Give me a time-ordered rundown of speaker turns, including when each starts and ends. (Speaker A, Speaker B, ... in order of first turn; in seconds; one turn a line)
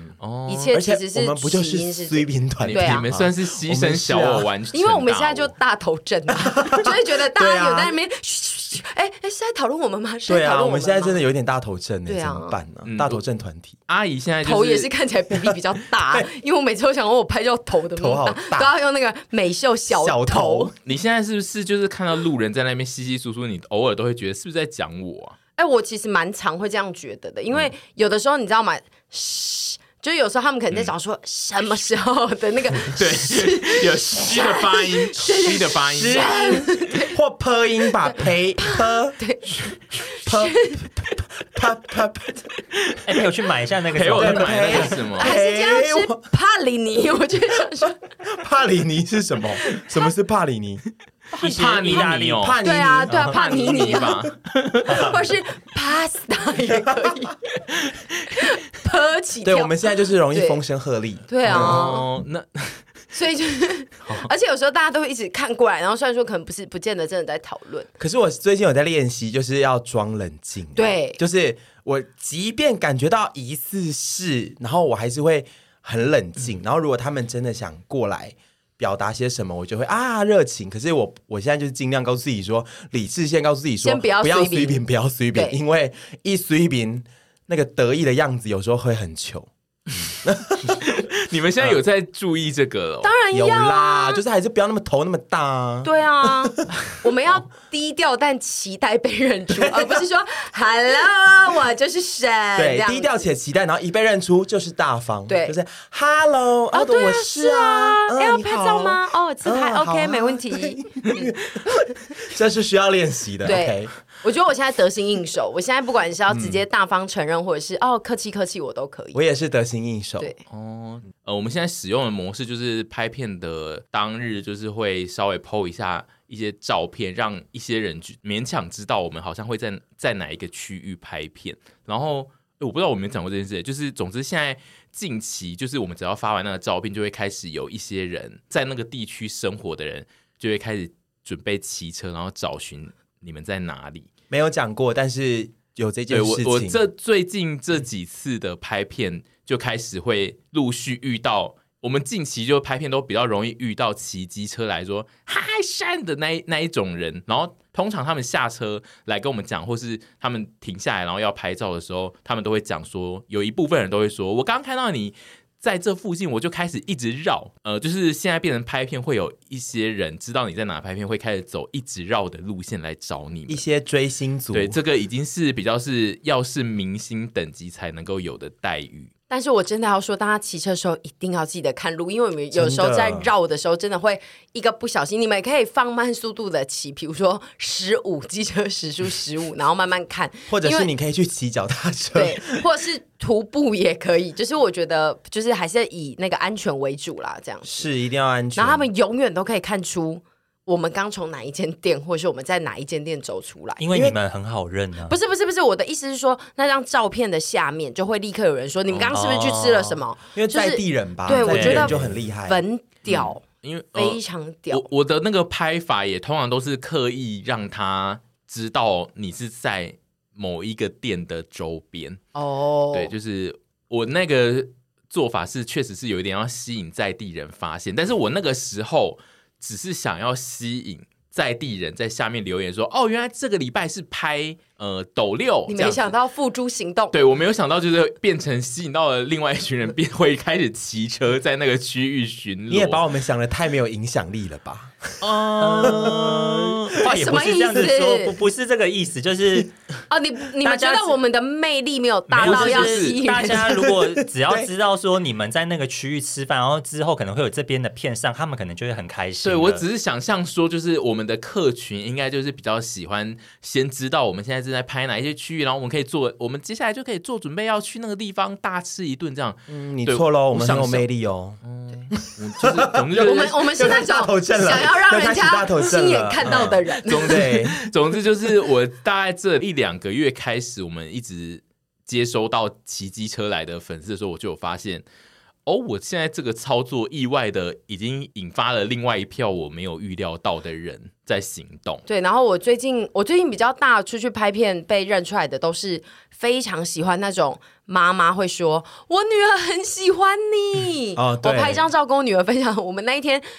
Speaker A: 0.2-0.7
Speaker B: 0.5-3.1
Speaker C: 0.7-4.5
Speaker A: 2.6-5.5
Speaker B: 4.7-11.2
Speaker C: 6.4-7.9
Speaker C: 10.3-13.8
Speaker B: 12.1-12.5
Speaker A: 12.8-13.2
Speaker A: 13.9-14.9
Speaker B: 14.4-20.7
Speaker C: 16.0-16.3
Speaker C: 17.9-18.7
Speaker C: 19.9-20.7
Speaker A: 20.8-25.4
Speaker B: 25.6-37.1
Speaker A: 32.8-36.5
Speaker C: 35.9-39.2
Speaker B: 38.0-40.8
Speaker C: 40.2-42.5
Speaker A: 42.7-43.2
Speaker D: 43.0-45.0
Speaker A: 43.9-45.3
Speaker C: 44.1-46.2
Speaker B: 45.2-48.0
Speaker C: 48.2-50.8
Speaker D: 51.4-52.5
Speaker A: 51.4-52.6
Speaker C: 51.5-54.2
Speaker B: 52.6-54.2
Speaker D: 53.1-53.4
Speaker A: 53.3-55.2
Speaker B: 54.8-57.4
Speaker D: 54.9-55.1
Speaker C: 56.8-57.1
Speaker A: 57.7-58.0
Speaker B: 58.3-59.8
Speaker C: 59.4-61.9
Speaker B: 60.3-60.6
Speaker B: 61.3-62.1
Speaker A: 61.4-62.8
Speaker B: 63.1-67.9
Speaker C: 68.0-89.5
Speaker B: 70.7-71.2
Speaker B: 83.8-84.8
Speaker C: 90.1-90.8
Speaker A: 90.6-93.1
Speaker B: 93.0-94.2
Speaker C: 93.3-96.7
Speaker B: 95.8-103.2
Speaker C: 99.6-100.0
Speaker C: 102.5-113.9
Speaker B: 105.3-105.5
Speaker B: 106.7-111.2
Speaker B: 113.4-119.2
Speaker C: 116.3-116.6
Speaker C: 119.1-120.3
Speaker A: 120.5-144.1
Speaker C: 144.3-146.8
Speaker A: 146.1-173.6
Speaker C: 173.5-174.8
Speaker A: 174.5-179.1
Speaker B: 179.3-190.9
Speaker C: 182.5-183.3
Speaker C: 190.5-192.6
Speaker B: 192.1-197.9
Speaker C: 197.6-198.9
Speaker B: 198.5-203.8
Speaker D: 203.8-205.2
Speaker C: 203.9-204.2
Speaker B: 205.1-213.4
Speaker D: 209.1-210.0
Speaker C: 210.3-212.6
Speaker D: 211.3-212.2
Speaker A: 213.1-214.2
Speaker B: 213.9-214.8
Speaker A: 214.7-222.2
Speaker B: 222.3-223.1
Speaker A: 222.9-236.1
Speaker B: 235.7-237.2
Speaker A: 237.1-243.0
Speaker C: 242.7-246.8
Speaker A: 245.2-246.6
Speaker D: 245.4-249.7
Speaker B: 247.0-248.3
Speaker B: 250.1-253.7
Speaker D: 250.6-251.1
Speaker D: 252.3-259.8
Speaker A: 252.4-253.2
Speaker C: 253.5-254.7
Speaker A: 259.4-271.1
Speaker C: 269.7-271.6
Speaker A: 271.6-273.9
Speaker C: 272.1-277.9
Speaker B: 273.2-277.4
Speaker A: 276.4-285.0
Speaker A: 285.6-292.0
Speaker B: 292.1-303.4
Speaker C: 301.1-301.8